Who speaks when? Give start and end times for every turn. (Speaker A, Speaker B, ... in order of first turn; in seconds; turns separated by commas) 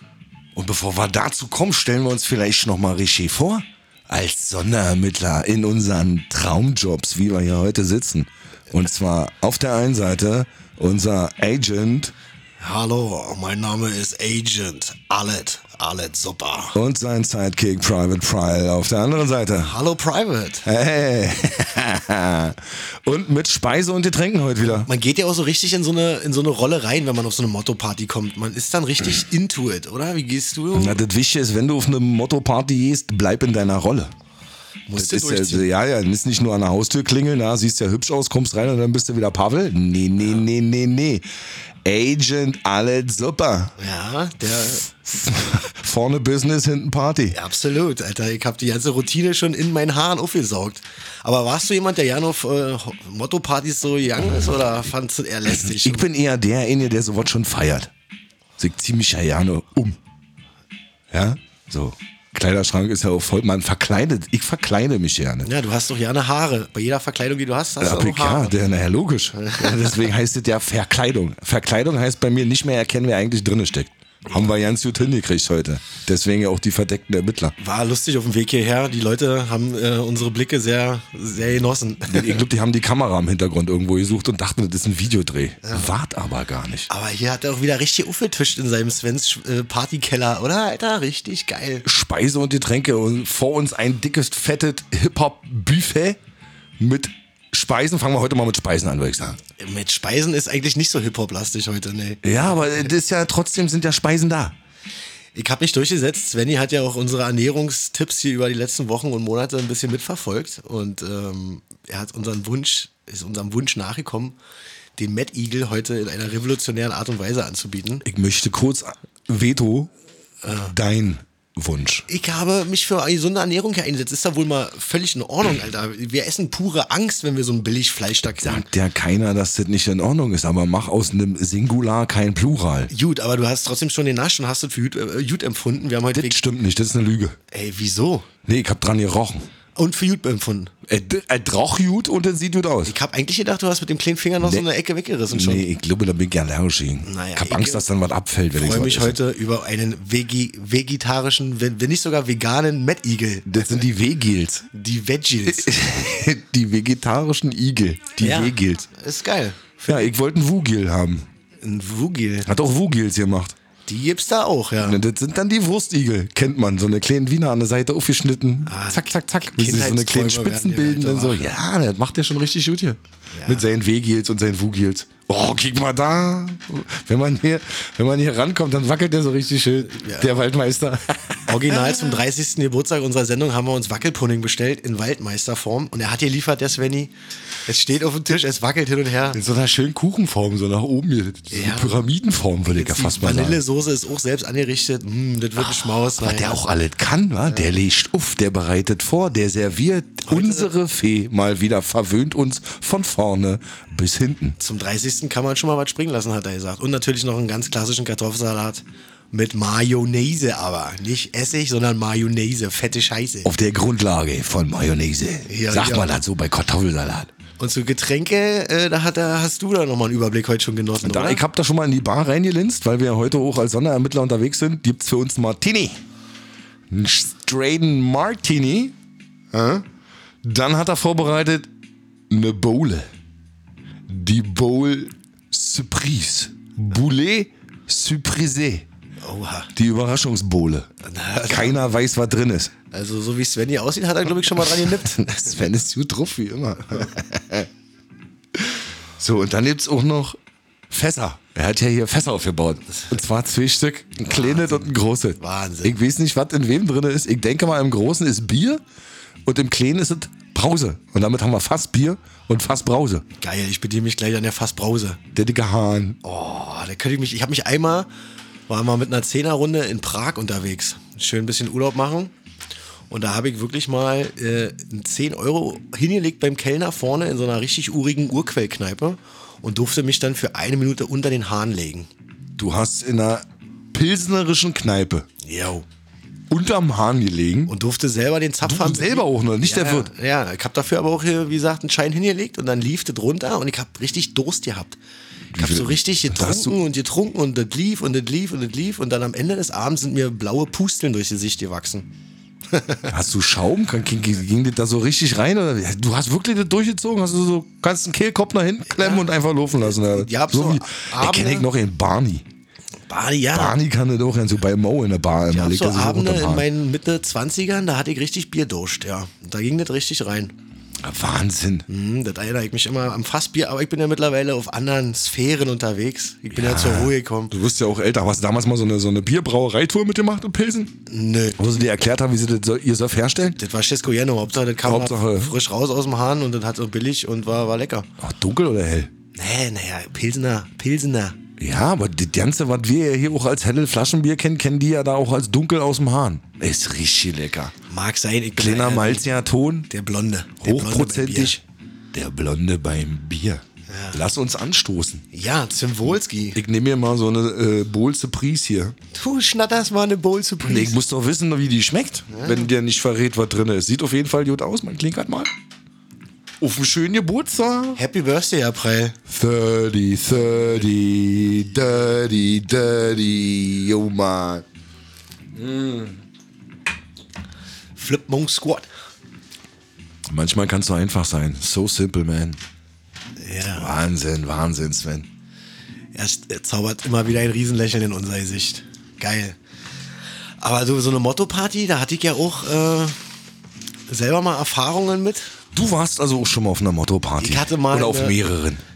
Speaker A: 0.5-12.1, Speaker B: 12.6-16.8, Speaker A: 16.7-19.7, Speaker B: 19.6-20.6, Speaker A: 20.6-24.9, Speaker B: 24.8-31.0, Speaker A: 30.7-34.1, Speaker B: 34.9-35.7, Speaker A: 35.0-41.2, Speaker A: 41.8-43.8, Speaker B: 43.8-44.9, Speaker A: 44.9-47.4, Speaker B: 47.3-56.0, Speaker A: 55.5-57.9, Speaker A: 58.6-60.0, Speaker A: 61.1-65.5, Speaker B: 65.4-68.6, Speaker A: 67.8-77.5, Speaker B: 69.4-70.0, Speaker B: 77.6-82.4, Speaker A: 82.1-86.9, Speaker B: 85.6-85.9, Speaker B: 86.9-91.8, Speaker A: 91.8-96.2, Speaker A: 96.8-99.4, Speaker B: 99.6-102.8, Speaker A: 102.2-104.5, Speaker B: 105.3-114.3, Speaker B: 115.0-118.0, Speaker A: 118.0-119.9, Speaker B: 120.4-120.7, Speaker A: 120.5-122.1, Speaker B: 122.1-128.7, Speaker A: 128.3-132.9, Speaker B: 132.9-136.4, Speaker A: 136.1-137.4, Speaker B: 137.5-138.3, Speaker A: 138.4-139.5, Speaker B: 139.8-140.7, Speaker A: 140.8-142.9, Speaker B: 142.8-145.7, Speaker A: 145.3-149.2, Speaker B: 147.0-147.8, Speaker B: 148.5-153.8, Speaker A: 153.5-154.7, Speaker B: 154.7-155.7, Speaker A: 155.4-158.9, Speaker B: 158.2-160.1, Speaker A: 159.9-161.2, Speaker B: 161.6-162.5, Speaker A: 162.4-163.6, Speaker B: 163.8-165.0, Speaker A: 164.8-182.2, Speaker B: 168.6-171.5, Speaker B: 173.3-173.7, Speaker B: 179.9-180.3, Speaker B: 181.5-187.1, Speaker B: 187.7-189.4, Speaker A: 189.3-193.6, Speaker B: 191.5-191.9, Speaker B: 192.7-196.6, Speaker A: 195.6-204.6, Speaker B: 200.3-200.7, Speaker B: 204.6-213.5, Speaker A: 213.4-217.3, Speaker B: 215.5-216.1, Speaker B: 217.6-221.4, Speaker A: 221.0-226.0, Speaker A: 226.9-228.9, Speaker A: 229.5-229.8, Speaker A: 230.4-231.7, Speaker A: 232.3-233.1, Speaker A: 234.1-238.8, Speaker B: 239.2-239.7, Speaker A: 239.8-240.9, Speaker B: 241.0-241.8, Speaker A: 241.4-242.7, Speaker B: 242.9-245.5, Speaker A: 244.9-247.7, Speaker A: 249.2-250.4, Speaker A: 250.9-258.8, Speaker B: 254.2-256.0, Speaker A: 259.4-263.2, Speaker B: 263.4-265.2, Speaker A: 265.3-266.2, Speaker B: 266.2-268.1, Speaker B: 268.7-272.3, Speaker B: 273.1-282.1, Speaker A: 282.6-285.3, Speaker B: 285.4-285.9, Speaker A: 286.5-287.7, Speaker B: 287.7-295.0, Speaker A: 288.6-290.1, Speaker A: 295.5-296.8, Speaker B: 295.5-302.1, Speaker B: 302.7-303.1, Speaker A: 303.1-312.4, Speaker B: 308.9-309.3, Speaker B: 309.8-311.7, Speaker B: 313.1-313.8, Speaker A: 313.5-316.6, Speaker B: 315.5-320.5, Speaker A: 321.0-321.9, Speaker B: 321.9-327.5, Speaker A: 326.5-330.9, Speaker B: 331.1-331.6, Speaker A: 331.6-333.6, Speaker B: 333.6-338.1, Speaker A: 334.8-335.5, Speaker A: 338.2-339.1, Speaker B: 339.3-341.4, Speaker A: 341.6-347.7, Speaker B: 347.9-349.3, Speaker A: 348.6-349.9, Speaker B: 349.9-351.6, Speaker A: 350.6-351.6, Speaker A: 352.1-355.2, Speaker B: 353.9-354.2, Speaker B: 355.3-356.6, Speaker A: 356.5-358.9, Speaker B: 359.1-361.0, Speaker A: 360.6-365.5, Speaker B: 362.3-362.7, Speaker A: 366.6-368.0, Speaker B: 367.9-369.2, Speaker A: 369.3-374.6, Speaker A: 375.5-376.1, Speaker B: 377.9-378.9, Speaker A: 380.3-382.6, Speaker B: 383.4-383.9, Speaker A: 383.7-385.3, Speaker B: 386.1-389.6, Speaker B: 390.6-393.2, Speaker B: 394.1-395.6, Speaker A: 395.7-398.8, Speaker B: 397.4-398.4